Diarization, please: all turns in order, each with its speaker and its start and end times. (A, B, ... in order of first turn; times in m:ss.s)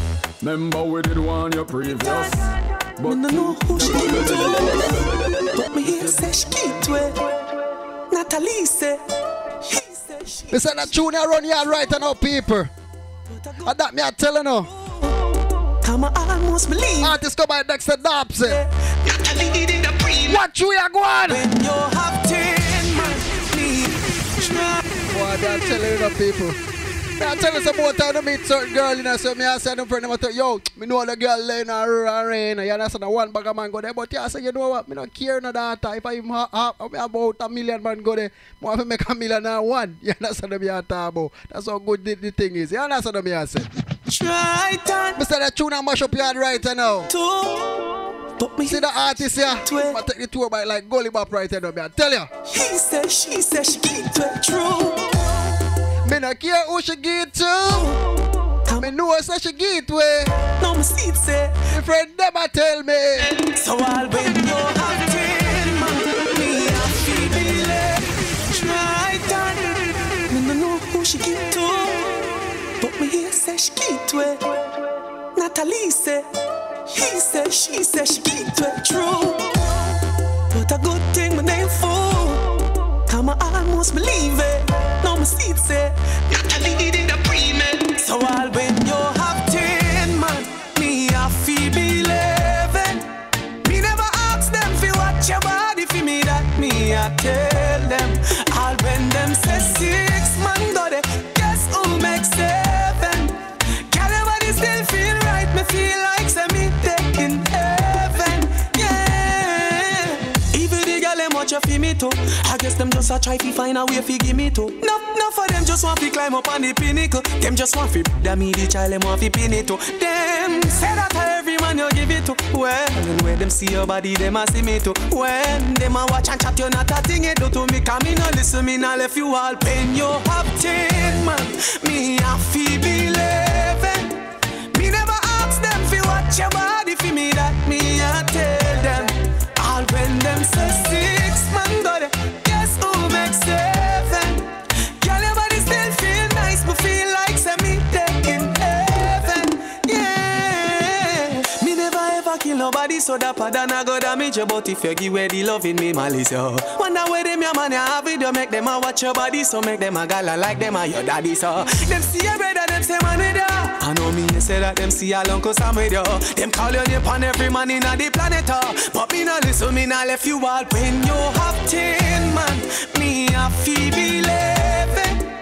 0:00.4-0:02.3 A
0:02.0-0:02.3 B
0:03.0-0:07.2 B
0:03.0-0:04.8 A
0:08.1-0:09.0 B
0:09.6-0:10.9 B
0:10.5-0:12.7 C
0:13.3-0:13.7 B
0:13.6-0:14.7 C
0:15.8-0:17.1 B
0:17.0-0:18.6 C
0:20.2-0:21.4 C
0:21.3-0:24.8 B
0:25.1-0:26.6 C
0:27.2-0:43.7 C
0:44.1-0:45.2 B
0:45.2-0:47.1 C
0:47.1-0:50.0 B
0:48.7-0:52.3 C
0:52.5-0:55.3 B
0:56.0-0:58.0 C
0:58.7-1:00.3 C
1:00.6-1:01.6 B
1:01.7-1:03.3 C
1:03.3-1:14.5 B
1:15.3-1:16.3 B
1:16.9-1:19.9 B
1:20.5-1:26.0 B
1:27.8-1:33.0 B
1:33.6-2:14.1 B
2:14.7-2:24.4 B
2:25.0-2:55.2 B